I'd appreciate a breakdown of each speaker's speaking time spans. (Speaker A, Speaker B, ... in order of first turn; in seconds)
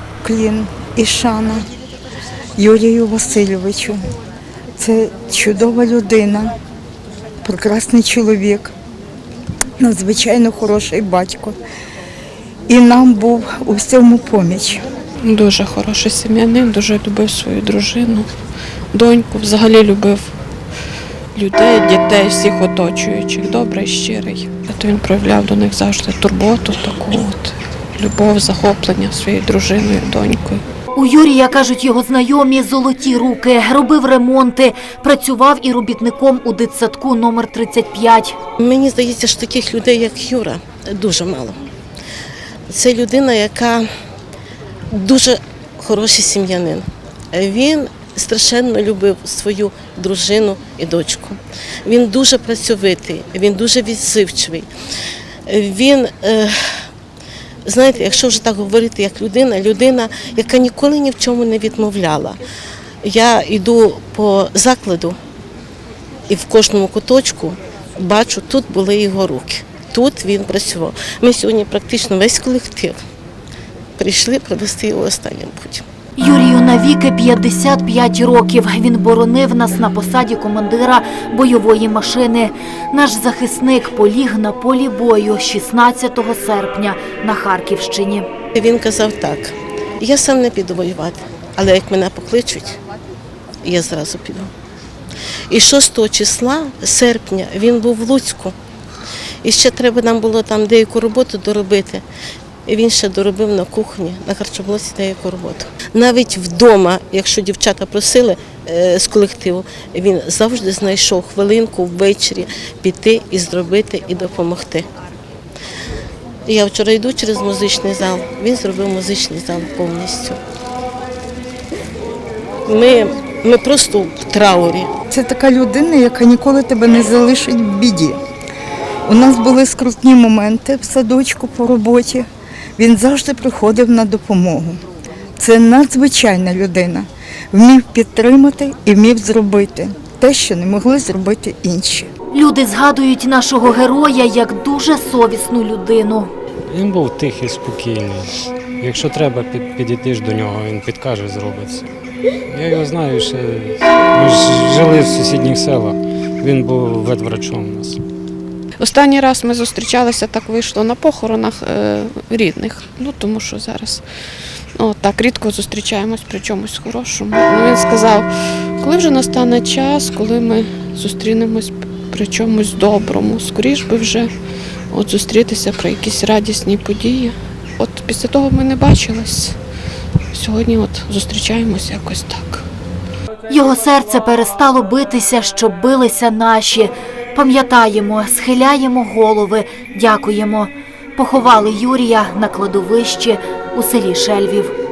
Speaker A: 0.2-1.6, 2.6-4.0, 4.8-6.5, 7.4-8.7, 9.8-11.6, 12.7-14.8, 125.1-128.2, 129.1-132.2, 132.8-134.8, 135.4-142.1
Speaker B: 15.2-18.3, 18.9-20.4, 21.3-30.6, 158.8-164.0, 164.8-174.3, 174.9-179.6, 180.3-182.7
Speaker C: 30.9-38.4, 76.2-88.2, 142.3-146.3, 183.5-194.7
Speaker D: 38.6-41.6, 42.7-43.9, 44.9-54.7, 55.5-56.5, 57.6-62.4, 63.0-65.2, 66.3-73.0, 74.0-75.8, 88.5-92.8, 93.6-94.5, 95.5-98.5, 99.4-102.0, 102.7-114.9, 116.5-120.4, 122.7-124.9
Speaker E: 146.7-151.8, 152.5-158.0